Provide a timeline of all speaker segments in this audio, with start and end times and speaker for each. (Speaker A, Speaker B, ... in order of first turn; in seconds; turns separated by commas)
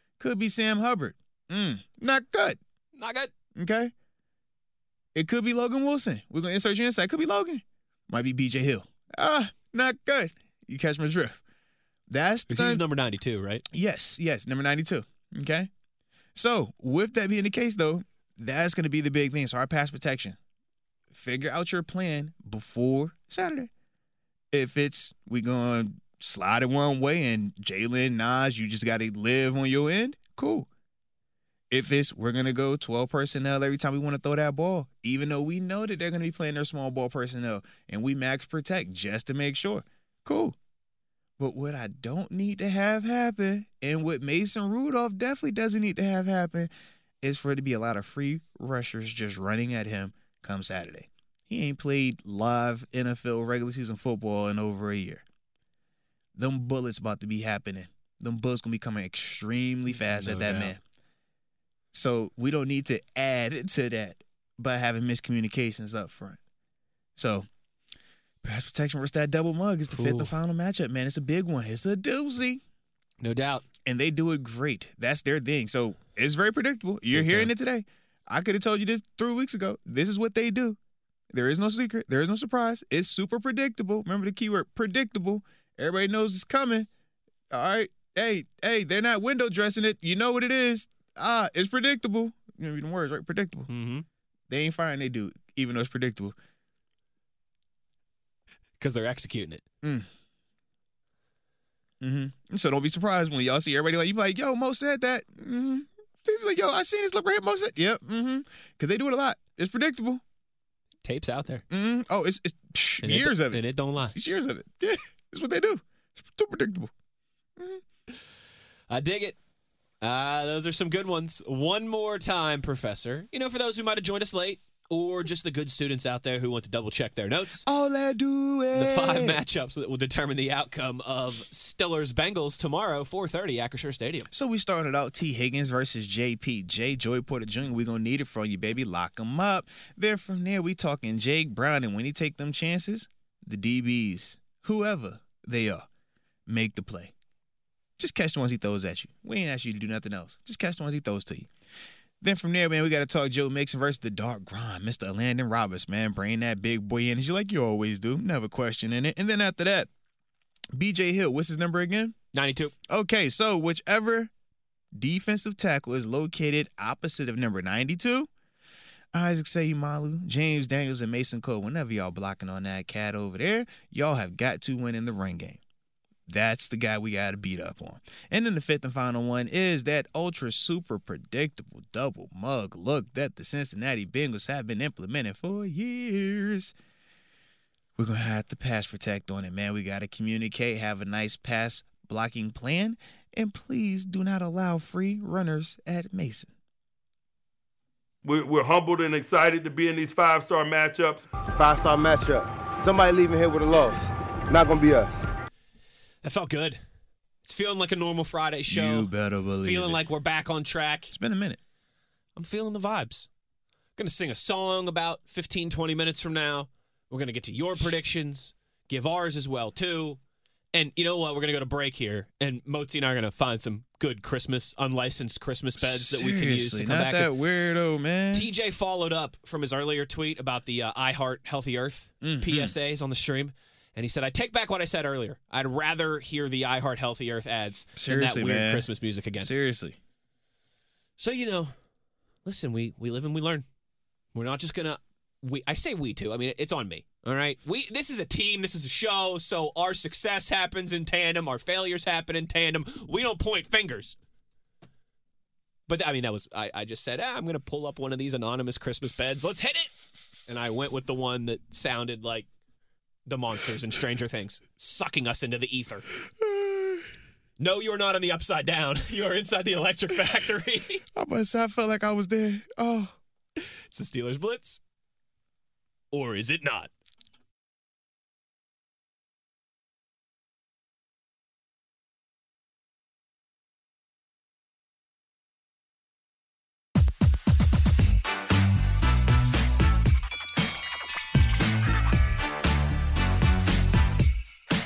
Speaker A: 0.2-2.6, Speaker B: 3.0-3.3, Speaker A: 3.5-3.9, Speaker A: 5.1-11.4, Speaker A: 12.1-12.8, Speaker B: 12.5-13.6, Speaker A: 13.7-15.7, Speaker A: 16.4-20.4, Speaker A: 21.1-23.7, Speaker A: 24.5-30.7, Speaker A: 31.7-40.6, Speaker A: 41.4-46.7, Speaker A: 47.2-55.2, Speaker A: 56.4-60.8, Speaker B: 59.9-60.8, Speaker A: 61.9-66.4, Speaker A: 67.2-67.5, Speaker A: 68.4-72.6, Speaker B: 69.9-70.3, Speaker B: 73.2-73.7, Speaker A: 73.8-80.8, Speaker B: 77.1-77.5, Speaker A: 81.3-86.9, Speaker A: 87.5-93.7, Speaker B: 93.7-94.1, Speaker A: 94.5-96.4, Speaker B: 98.8-99.6, Speaker A: 99.8-100.1, Speaker A: 102.0-110.2, Speaker B: 111.0-111.6, Speaker A: 111.7-116.9, Speaker B: 113.0-114.2, Speaker A: 117.6-117.8, Speaker B: 118.9-119.4, Speaker B: 120.0-127.7, Speaker A: 127.6-129.4, Speaker B: 128.7-134.3, Speaker A: 134.3-145.9, Speaker A: 146.5-147.1, Speaker A: 148.0-151.5, Speaker A: 152.2-159.9, Speaker A: 160.8-162.2, Speaker B: 162.3-162.7, Speaker A: 162.9-164.3, Speaker A: 164.9-168.3, Speaker A: 169.1-175.6, Speaker A: 176.3-186.7, Speaker A: 188.0-196.5, Speaker C: 198.2-201.3, Speaker D: 201.5-205.2, Speaker B: 206.2-206.8, Speaker B: 207.4-209.1, Speaker A: 208.7-210.1, Speaker B: 209.6-211.1, Speaker A: 211.1-211.6, Speaker B: 212.4-213.3, Speaker B: 214.0-220.2, Speaker B: 220.7-227.3, Speaker A: 225.8-228.5, Speaker B: 228.3-239.5, Speaker A: 232.2-232.8, Speaker A: 238.0-240.0, Speaker B: 241.2-241.7, Speaker B: 242.4-243.7, Speaker B: 244.3-254.2, Speaker B: 255.9-262.5, Speaker B: 263.3-266.1, Speaker A: 266.4-267.1, Speaker B: 267.6-271.0, Speaker A: 271.1-273.2, Speaker B: 273.6-274.8, Speaker B: 276.1-276.9